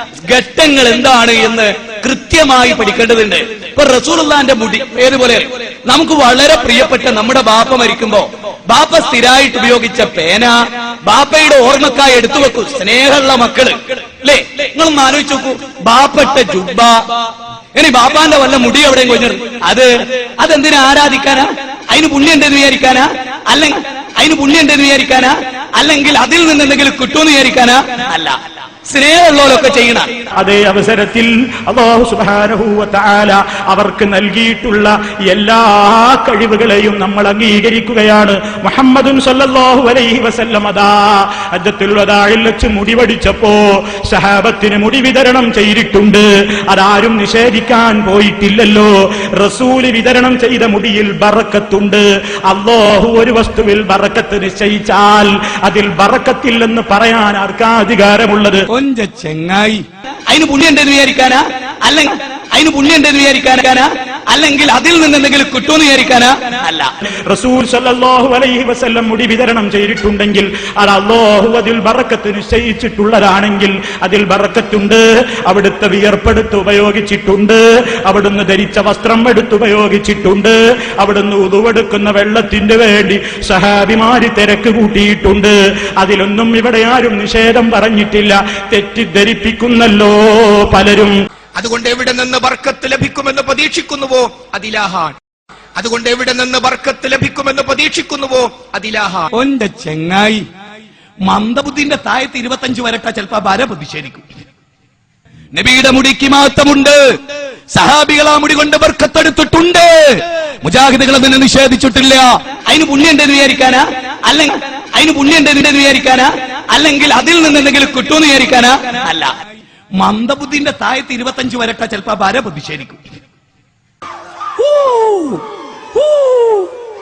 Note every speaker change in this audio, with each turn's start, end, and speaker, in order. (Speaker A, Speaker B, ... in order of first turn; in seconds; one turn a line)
Speaker A: 0.2-17.0
Speaker A: 17.7-30.1
Speaker B: 30.4-58.6
Speaker A: 58.7-66.9
Speaker B: 67.3-91.2
Speaker C: 91.6-95.2
Speaker C: 95.8-99.3
Speaker A: 99.3-100.4
Speaker A: 101.2-104.2
Speaker A: 105.5-107.1
Speaker A: 107.7-119.3
Speaker A: 120.0-123.0
Speaker A: 124.6-126.7